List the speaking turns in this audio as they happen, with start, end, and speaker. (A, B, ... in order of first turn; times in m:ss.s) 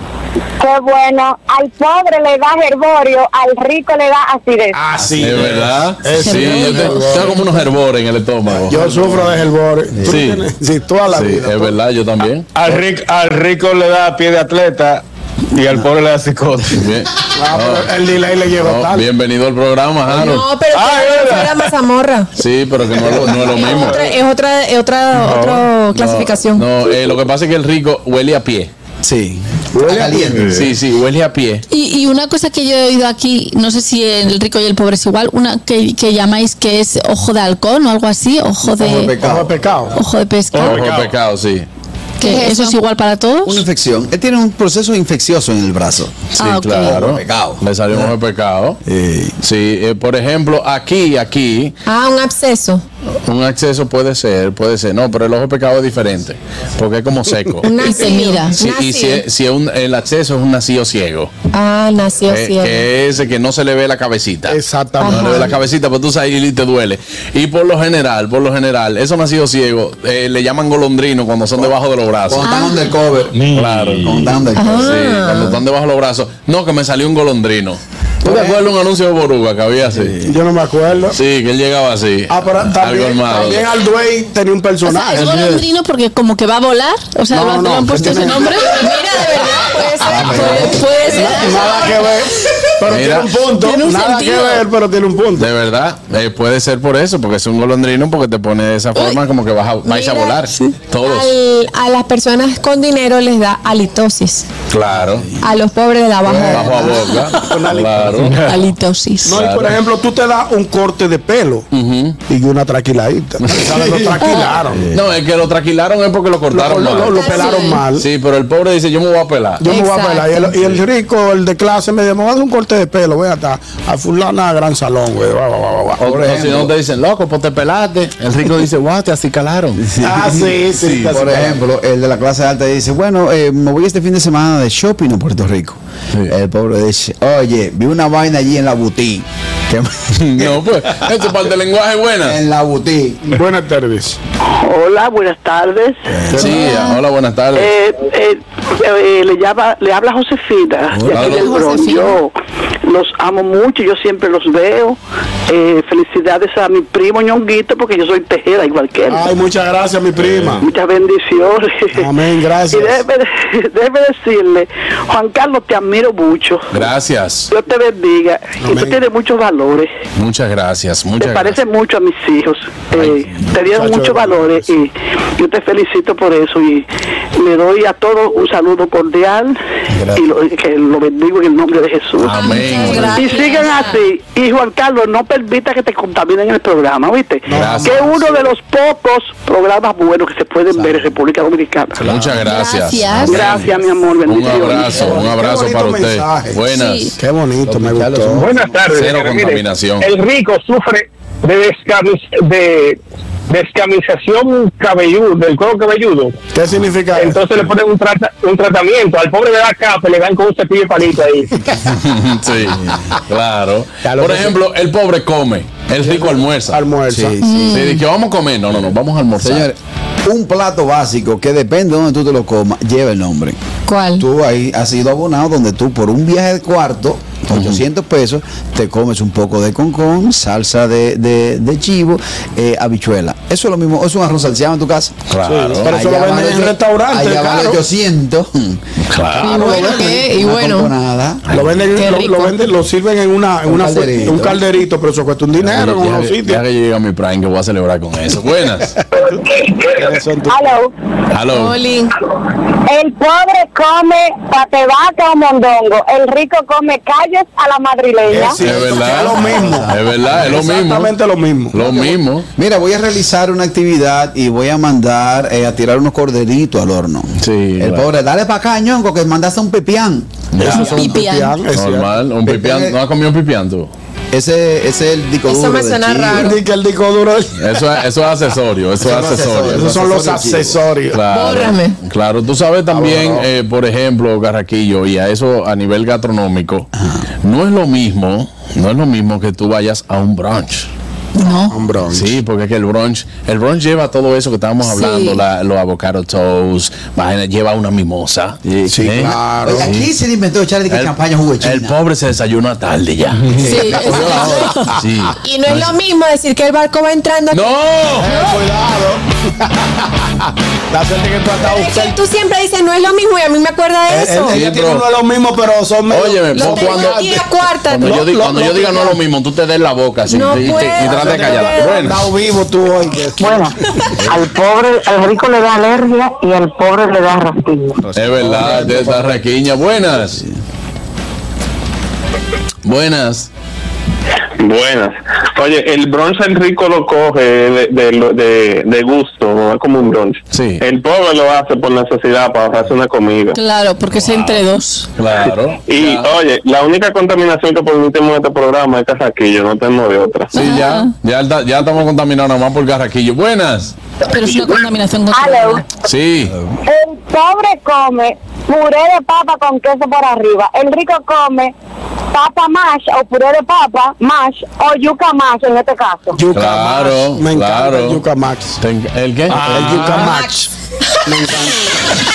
0:00.6-0:04.8 A
0:04.7-0:07.4 B
0:05.2-0:08.8 C
0:06.1-0:07.4 D
0:08.7-0:11.8 B
0:08.7-0:09.1 E
0:09.9-0:10.2 E
0:10.0-0:10.5 C
0:11.1-0:12.5 C
0:12.5-0:16.9 F
0:16.8-0:17.9 C
0:17.4-0:19.1 B
0:18.6-0:20.5 C
0:20.1-0:22.3 G
0:20.7-0:21.7 F
0:22.4-0:24.0 C
0:22.9-0:24.0 E
0:23.2-0:26.6 G
0:25.2-0:25.6 F
0:25.9-0:28.7 C
0:29.0-0:30.7 E
0:29.7-0:30.4 B
0:30.4-0:30.6 F
0:30.5-0:31.6 C
0:31.7-0:39.1 D
0:38.6-0:39.6 E
0:39.2-0:40.0 B
0:39.9-0:40.8 D
0:40.5-0:41.2 F
0:40.6-0:41.7 C
0:42.2-0:43.6 D
0:42.2-0:42.8 G
0:43.4-0:46.2 E
0:46.3-0:48.8 C
0:46.4-0:47.0 D
0:46.8-0:48.1 E
0:48.8-0:49.4 E
0:49.4-0:51.8 C
0:51.8-0:52.8 G
0:53.2-0:57.9 C
0:57.6-0:59.2 G
0:57.8-0:58.6 D
0:58.6-1:01.3 C
1:01.5-1:02.8 G
1:02.3-1:12.5 C
1:04.5-1:05.5 B
1:05.0-1:05.5 G
1:12.2-1:13.4 E
1:12.4-1:12.8 D
1:13.3-1:14.2 F
1:13.5-1:20.2 C
1:14.0-1:15.1 E
1:14.5-1:15.6 G
1:18.2-1:18.6 E
1:19.9-1:20.3 E
1:20.2-1:21.2 B
1:21.1-1:23.7 C
1:22.3-1:25.7 B
1:24.8-1:28.9 D
1:27.3-1:28.8 B
1:28.6-1:32.0 G
1:29.9-1:30.9 E
1:30.2-1:32.1 D
1:31.1-1:35.5 B
1:32.8-1:33.3 C
1:33.6-1:34.6 D
1:35.4-1:41.3 C
1:39.8-1:40.4 G
1:41.0-1:44.5 G
1:44.7-1:45.3 C
1:45.0-1:45.3 E
1:45.4-1:47.0 G
1:46.3-1:48.4 C
1:46.5-1:48.3 B
1:47.1-1:47.6 D
1:48.2-1:48.6 F
1:48.4-1:49.4 D
1:49.2-1:51.6 B
1:49.3-1:49.8 C
1:51.7-1:52.2 C
1:52.3-1:54.8 B
1:53.4-1:54.2 C
1:54.2-1:54.6 D
1:54.7-1:55.1 E
1:54.9-1:59.6 C
1:56.5-1:58.1 B
1:57.1-1:57.9 G
1:59.6-2:06.0 B
1:59.6-2:00.6 G
2:06.0-2:09.8 C
2:06.0-2:06.7 E
2:10.0-2:11.6 B
2:10.0-2:10.4 E
2:10.7-2:11.1 C
2:11.1-2:20.6 E
2:20.2-2:22.4 C
2:22.2-2:23.3 E
2:23.3-2:24.2 B
2:24.6-2:26.6 H
2:26.3-2:26.6 E
2:26.3-2:26.5 B
2:26.3-2:27.7 C
2:26.6-2:27.0 D
2:27.5-2:32.3 H
2:31.0-2:31.4 E
2:31.1-2:31.5 C
2:31.3-2:32.2 D
2:32.8-2:35.0 H
2:35.5-2:39.4 H
2:39.1-2:40.6 B
2:40.2-2:40.6 C
2:40.6-2:46.9 H
2:41.9-2:43.0 B
2:46.7-2:47.5 C
2:47.5-2:49.9 H
2:48.6-2:49.0 B
2:50.2-2:51.6 C
2:51.2-2:56.8 H
2:52.9-2:53.3 C
2:53.6-2:54.7 B
2:57.4-3:12.0 H
3:02.2-3:03.2 C
3:02.3-3:04.0 D
3:07.5-3:08.5 B
3:07.5-3:08.0 C
3:10.8-3:11.0 E
3:12.0-3:13.7 C
3:12.4-3:13.5 D
3:13.3-3:15.1 H
3:13.3-3:13.7 E
3:14.2-3:17.1 C
3:14.8-3:16.6 B
3:16.7-3:17.1 D
3:17.2-3:18.6 B
3:17.6-3:18.9 E
3:18.4-3:19.5 F
3:18.8-3:19.5 I
3:18.9-3:20.1 C
3:20.2-3:23.0 I
3:23.5-3:26.3 I
3:26.5-3:27.6 B
3:27.2-3:31.4 I
3:31.8-3:36.8 C
3:34.0-3:34.6 B
3:36.0-3:37.4 B
3:37.1-3:37.9 E
3:37.4-3:38.0 D
3:37.7-3:39.7 C
3:39.4-3:43.6 E
3:43.9-3:44.2 G
3:44.2-3:55.1 E
3:47.5-3:47.8 C
3:55.3-3:55.9 C
3:55.4-3:57.8 B
3:55.8-3:58.8 E
3:59.0-3:59.8 C
3:59.4-4:00.9 G
3:59.4-4:00.2 B
3:59.6-4:01.4 E
4:01.5-4:01.8 C
4:01.5-4:06.6 B
4:01.9-4:02.8 G
4:03.7-4:04.6 E
4:05.6-4:09.0 C
4:09.8-4:10.7 B
4:10.5-4:10.9 A
4:11.3-4:11.8 C
4:11.5-4:12.2 G
4:12.5-4:18.6 A
4:18.3-4:21.8 B
4:18.6-4:21.1 C
4:19.3-4:20.3 E
4:21.7-4:22.4 C
4:21.8-4:30.9 E
4:27.4-4:28.0 C
4:30.5-4:31.1 C
4:30.6-4:32.1 B
4:30.7-4:31.6 D
4:31.7-4:33.9 C
4:32.4-4:33.0 E
4:34.3-4:36.6 E
4:35.4-4:36.6 G
4:36.4-4:37.8 B
4:37.6-4:39.9 C
4:39.0-4:40.8 E
4:39.7-4:41.2 B
4:41.1-4:46.9 C
4:41.3-4:42.0 G
4:42.9-4:43.5 B
4:47.4-4:50.9 C
4:51.4-4:51.8 D
4:51.7-4:52.4 B
4:52.1-5:00.1 C
4:54.8-4:55.4 D
4:58.6-5:01.9 E
4:58.9-4:59.9 B
5:00.9-5:03.8 C
5:03.6-5:04.8 E
5:03.6-5:04.9 D
5:03.9-5:04.7 G
5:04.9-5:05.9 C
5:05.4-5:08.6 G
5:07.5-5:08.3 C
5:08.2-5:12.2 B
5:11.5-5:14.6 G
5:14.1-5:19.2 B
5:14.5-5:15.0 C
5:16.1-5:17.2 C
5:16.5-5:19.1 G
5:17.9-5:22.3 C
5:20.2-5:22.1 G
5:20.6-5:23.8 B
5:23.4-5:28.0 A
5:28.0-5:29.3 E
5:28.2-5:30.4 C
5:32.8-5:33.5 C
5:34.6-5:43.6 I
5:40.5-5:40.8 C
5:43.5-5:45.1 D
5:44.1-5:44.6 C
5:45.2-5:46.3 C
5:45.4-5:50.5 I
5:50.5-5:53.9 C
5:50.5-5:51.1 D
5:54.3-5:55.8 D
5:55.3-5:55.8 A
5:56.0-5:56.6 C
5:56.5-5:56.8 E
5:56.9-6:01.7 A
6:02.3-6:06.4 A
6:06.3-6:08.8 B
6:06.5-6:08.2 C
6:08.8-6:10.2 C
6:09.5-6:10.7 B
6:09.5-6:10.3 F
6:10.2-6:11.7 G
6:11.2-6:11.8 B